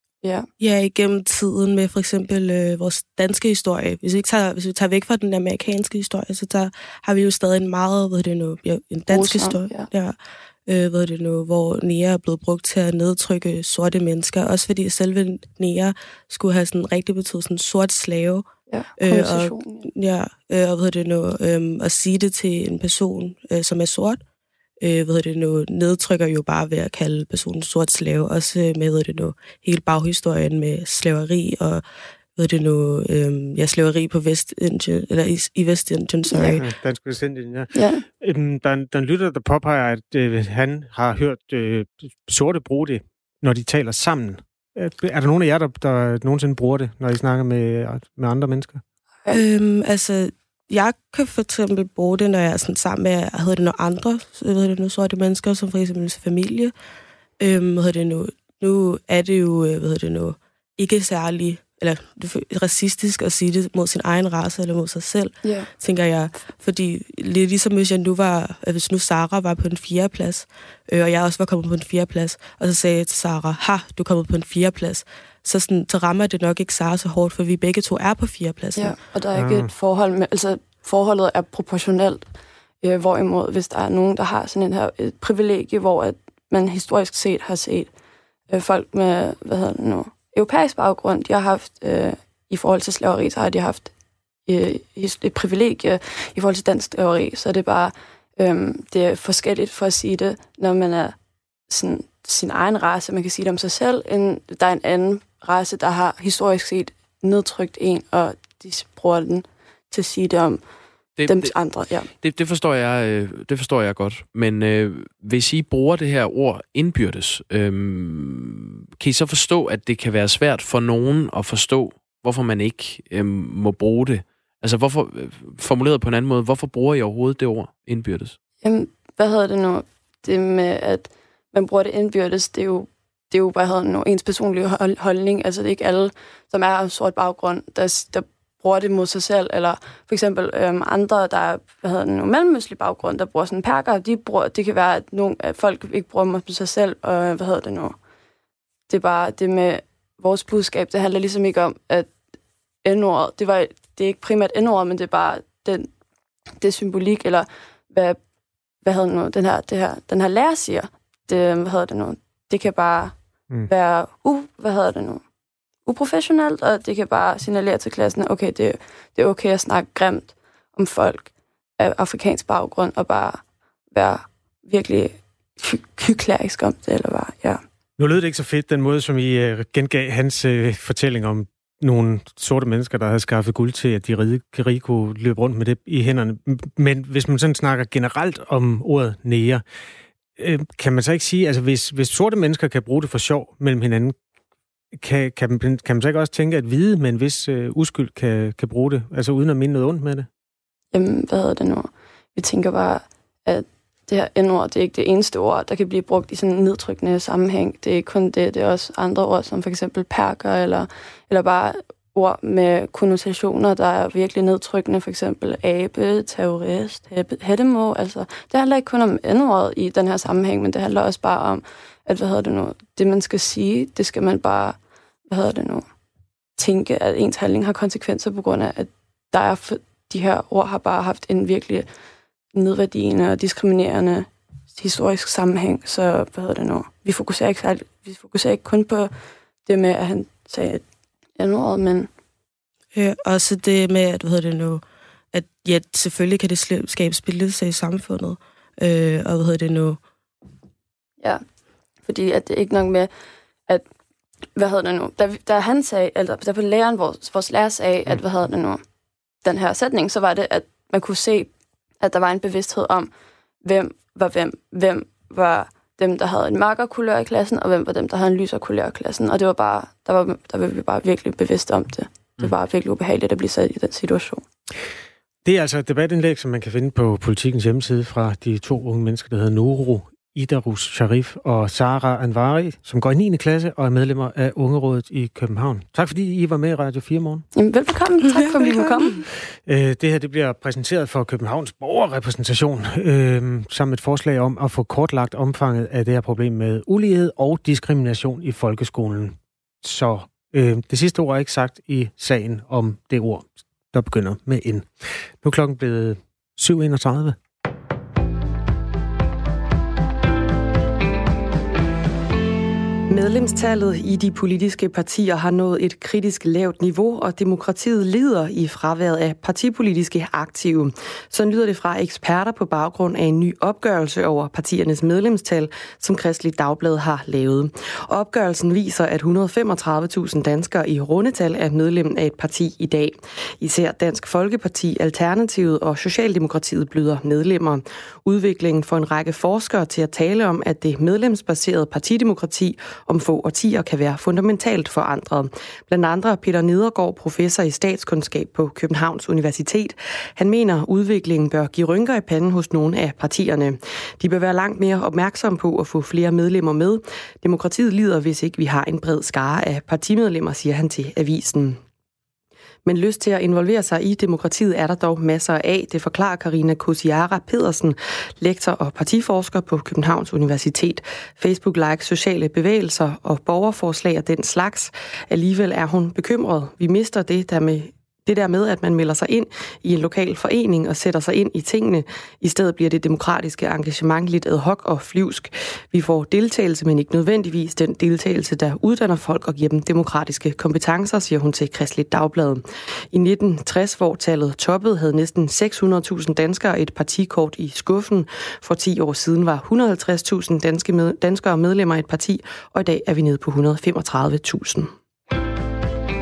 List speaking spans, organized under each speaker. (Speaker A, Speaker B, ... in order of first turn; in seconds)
Speaker A: 0.6-18.5, 19.0-24.2, 24.8-31.8, 32.4-36.6, 49.3-56.7, 57.4-79.0, 242.9-250.0, 288.3-289.2
Speaker B: 9.1-9.9, 18.7-19.9, 36.3-36.6, 37.7-38.0, 65.4-65.7, 78.8-82.2, 82.8-87.9, 88.5-93.9, 94.5-101.2, 101.7-110.6, 111.3-112.1, 128.6-147.9, 148.9-152.1, 152.8-155.9, 156.6-158.2, 158.8-163.2, 163.7-165.2, 165.9-177.6, 200.9-224.8, 225.3-225.8, 226.6-231.9, 232.5-239.1, 239.7-240.8, 241.4-242.1, 252.1-253.1, 254.6-258.8, 259.4-261.5, 262.0-263.1, 263.6-274.4, 287.6-289.2
Speaker C: 36.6-48.8, 79.3-79.7, 178.0-189.6, 190.4-194.2, 195.0-200.3, 275.4-287.4, 289.7-304.9, 305.4-307.4
Speaker D: 111.2-111.5, 112.2-128.4
Speaker E: 313.1-361.8, 362.9-404.9